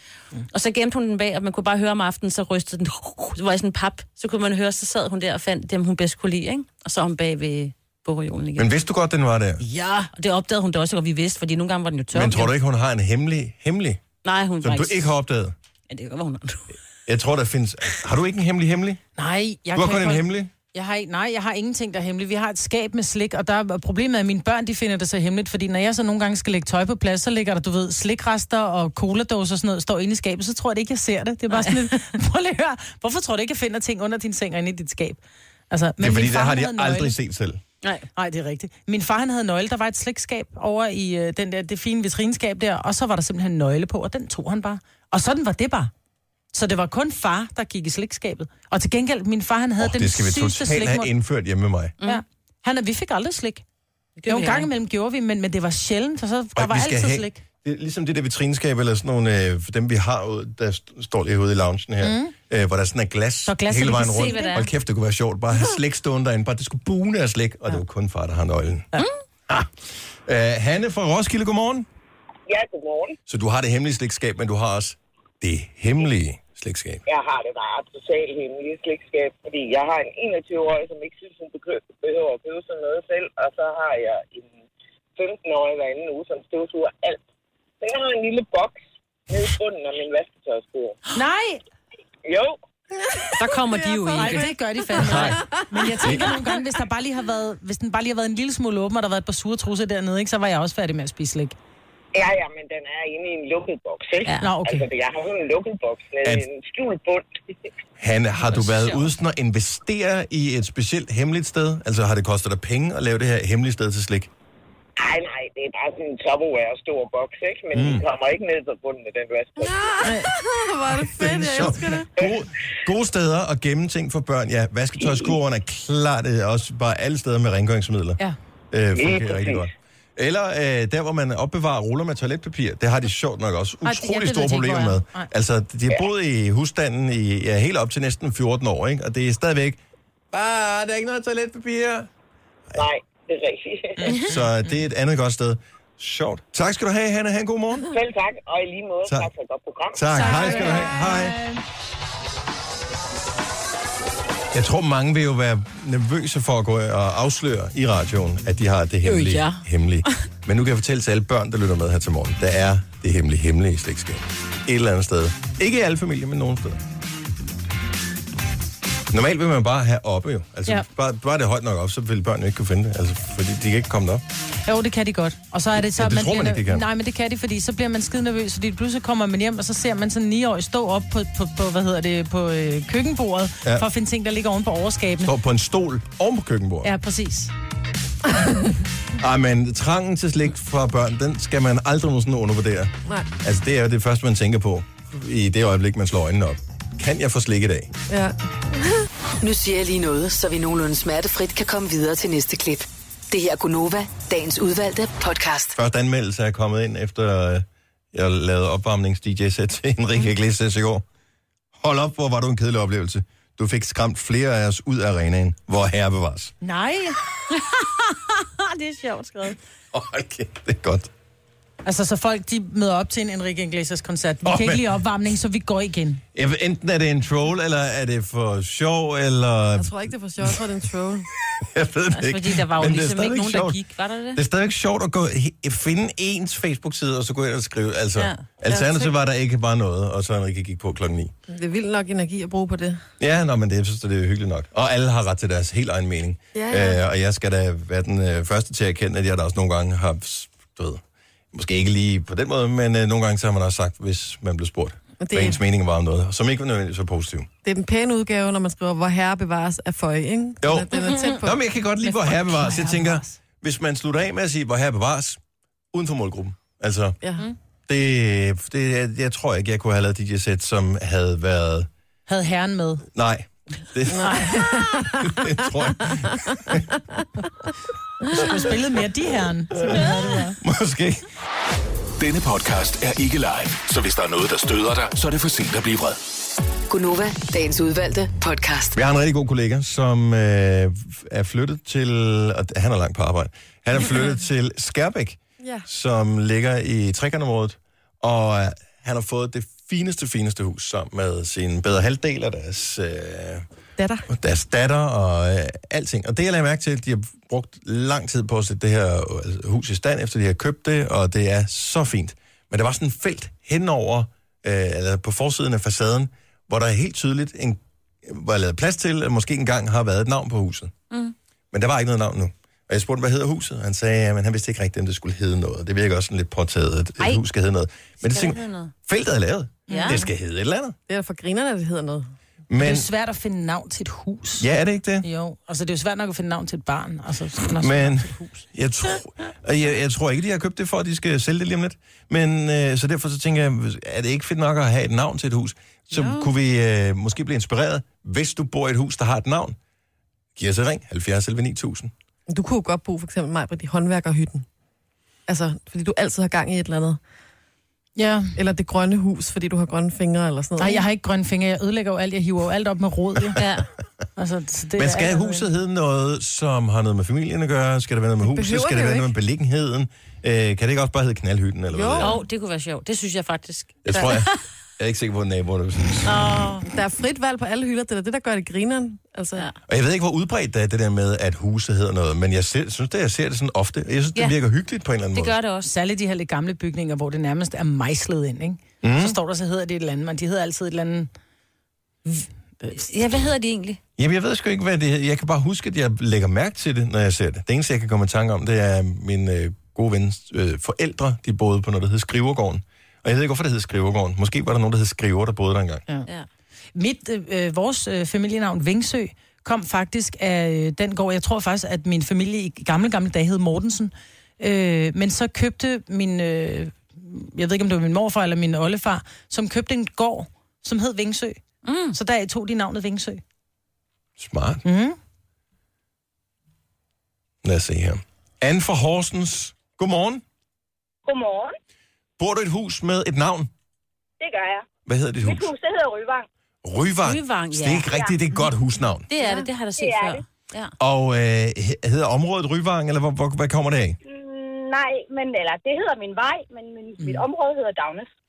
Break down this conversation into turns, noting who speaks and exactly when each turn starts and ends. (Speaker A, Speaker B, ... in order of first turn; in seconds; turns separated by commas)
Speaker A: 0.5-8.7, Speaker B: 8.6-9.6, Speaker A: 9.6-12.5, Speaker B: 12.1-14.0, Speaker A: 14.2-15.1, Speaker B: 14.6-15.6, Speaker A: 15.9-16.7, Speaker B: 17.1-19.0, Speaker C: 19.1-37.1, Speaker B: 19.7-20.5, Speaker A: 31.5-31.9, Speaker B: 36.0-37.6, Speaker A: 37.8-38.1, Speaker C: 38.1-45.9, Speaker C: 46.5-51.1, Speaker B: 49.8-52.0, Speaker C: 52.0-53.6, Speaker A: 54.2-54.7, Speaker C: 54.3-57.4, Speaker B: 56.5-68.9, Speaker C: 62.0-62.3, Speaker C: 63.5-64.6, Speaker A: 64.0-64.7, Speaker B: 69.5-71.9, Speaker D: 72.5-73.2, Speaker B: 73.3-77.0, Speaker D: 77.1-84.5, Speaker D: 85.2-87.2, Speaker D: 87.8-91.0, Speaker C: 91.1-91.6, Speaker D: 92.3-92.6, Speaker E: 93.0-94.5, Speaker A: 93.4-95.4, Speaker C: 94.1-101.5, Speaker B: 95.0-95.4, Speaker E: 95.1-96.2, Speaker B: 96.0-96.3, Speaker D: 102.1-107.4, Speaker C: 104.4-104.9, Speaker B: 108.0-114.3, Speaker D: 115.0-119.8, Speaker B: 117.7-118.0, Speaker E: 119.6-122.1, Speaker B: 121.1-128.2, Speaker B: 128.7-139.8, Speaker D: 128.9-129.7, Speaker C: 133.8-135.3, Speaker B: 140.3-142.1, Speaker D: 142.8-144.2, Speaker C: 144.0-144.7, Speaker B: 144.1-147.9, Speaker D: 147.9-150.1, Speaker B: 149.9-151.4, Speaker C: 150.1-151.6, Speaker B: 154.5-166.8, Speaker A: 159.1-159.6, Speaker B: 169.1-174.2, Speaker C: 174.6-185.3, Speaker B: 175.8-176.9, Speaker B: 185.2-186.9, Speaker C: 186.8-187.5, Speaker B: 189.2-197.9, Speaker E: 198.1-199.1, Speaker F: 199.4-205.8, Speaker B: 205.8-211.0, Speaker B: 211.8-216.5, Speaker C: 216.6-217.2, Speaker A: 217.5-219.6, Speaker B: 219.9-221.1, Speaker C: 221.8-226.2, Speaker B: 224.4-224.9, Speaker B: 226.3-230.6, Speaker E: 229.8-231.3, Speaker B: 231.4-233.8, Speaker A: 232.1-234.4, Speaker B: 234.3-241.3, Speaker A: 238.2-239.1, Speaker E: 241.5-243.0, Speaker B: 243.2-251.0, Speaker E: 246.6-247.0, Speaker B: 251.5-257.5, Speaker E: 255.2-255.6, Speaker E: 257.6-261.6, Speaker B: 260.6-265.4, Speaker C: 262.0-263.4, Speaker B: 265.9-267.2, Speaker B: 267.9-271.9, Speaker C: 272.3-273.1, Speaker B: 273.1-276.9, Speaker E: 274.1-277.2, Speaker C: 274.2-274.8, Speaker C: 278.3-280.6, Speaker B: 280.6-281.2, Speaker G: 282.2-286.2, Speaker F: 286.9-289.0, Speaker B: 288.9-303.6, Speaker E: 295.6-295.9, Speaker E: 304.0-304.3, Speaker B: 304.3-320.9, Speaker B: 321.7-330.9, Speaker A: 328.2-328.9, Speaker C: 329.9-330.2, Speaker A: 329.9-330.2, Speaker E: 331.1-332.3, Speaker B: 332.7-333.1, Speaker C: 332.8-334.7, Speaker B: 334.6-335.3, Speaker C: 335.2-338.6, Speaker B: 337.8-349.8, Speaker A: 346.1-346.5, Speaker B: 350.6-352.1, Speaker E: 352.5-354.6, Speaker E: 355.5-357.2, Speaker C: 358.2-358.6, Speaker E: 358.6-361.1, Speaker C: 360.8-363.6, Speaker A: 363.6-363.9, Speaker C: 364.4-365.7, Speaker B: 365.0-372.4, Speaker E: 368.4-369.3, Speaker E: 371.9-372.4, Speaker A: 372.2-374.6, Speaker B: 374.1-376.4, Speaker A: 376.2-376.9, Speaker E: 376.9-379.6, Speaker B: 379.9-385.6, Speaker A: 385.4-385.9, Speaker C: 385.9-391.3, Speaker B: 389.0-389.4, Speaker C: 392.3-393.1, Speaker A: 392.9-394.0, Speaker B: 394.2-406.1, Speaker C: 406.9-421.6, Speaker A: 421.8-422.1, Speaker C: 422.1-423.4, Speaker B: 424.4-424.8, Speaker C: 424.8-425.2, Speaker B: 427.6-430.4, Speaker H: 431.2-431.8, Speaker B: 432.4-433.7, Speaker H: 434.4-434.9, Speaker B: 435.1-435.7, Speaker H: 435.4-436.5, Speaker B: 436.8-439.3, Speaker A: 437.2-438.2, Speaker A: 439.3-440.9, Speaker H: 439.4-440.4, Speaker B: 441.0-444.2, Speaker H: 444.2-448.3, Speaker C: 447.2-447.4